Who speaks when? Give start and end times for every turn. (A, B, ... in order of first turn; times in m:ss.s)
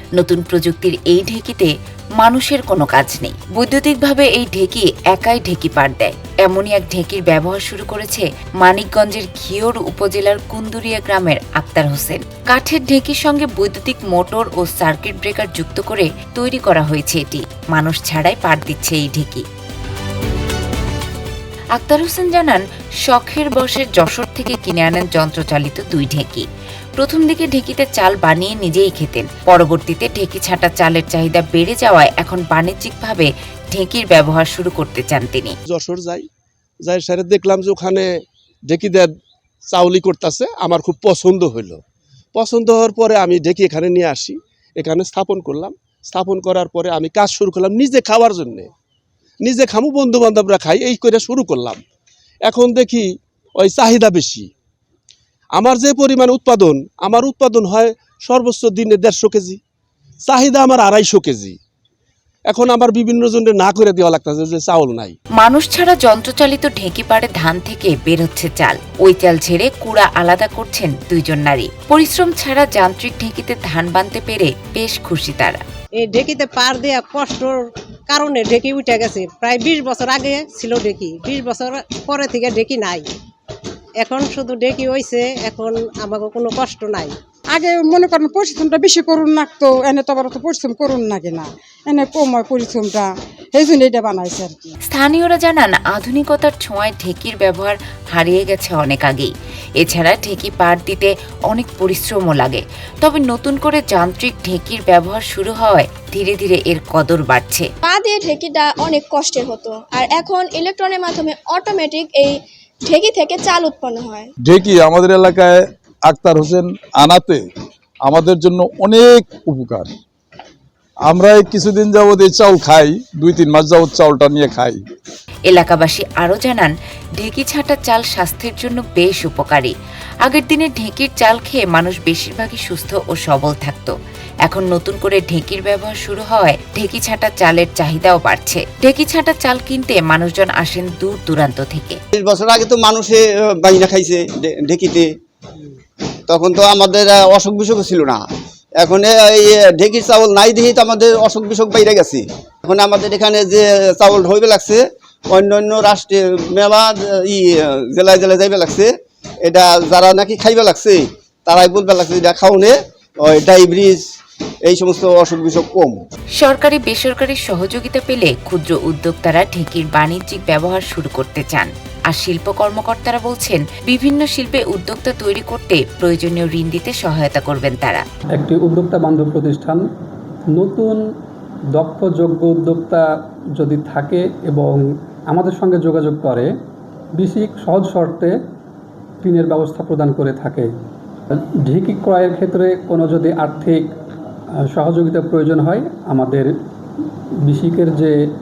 0:00.2-0:19.4 A
0:21.8-0:26.4 A
0:27.0-0:35.5 A
0:35.7-0:36.2 B
0:36.8-0:38.1 B
0:38.7-0:39.1 B
0:39.7-0:41.8 B
0:42.3-0:48.7 B
0:49.4-0:51.8 B
0:52.4-0:54.5 B
0:55.5-0:59.6 B
1:00.2-1:01.6 B
1:02.5-1:05.1 B
1:05.4-1:15.6 A
1:16.0-1:23.0 C
1:24.0-1:27.1 C
1:27.5-1:34.6 D
1:34.9-1:47.7 A
1:47.8-1:54.3 E
1:54.4-1:57.4 F
1:58.0-1:59.9 F
2:01.0-2:04.8 F
2:05.5-2:09.7 A
2:10.2-2:13.9 A
2:14.4-2:22.0 A
2:22.1-2:25.1 G
2:26.3-2:28.2 G
2:28.8-2:38.9 G
2:39.4-2:44.0 G
2:44.6-2:46.0 G
2:46.4-2:58.0 A
2:58.4-2:59.8 H
3:00.5-3:01.0 H
3:01.7-3:03.0 H
3:03.6-3:06.5 H
3:07.2-3:08.4 H
3:09.2-3:10.7 H
3:11.6-3:13.9 H
3:14.7-3:16.5 H
3:17.4-3:18.2 H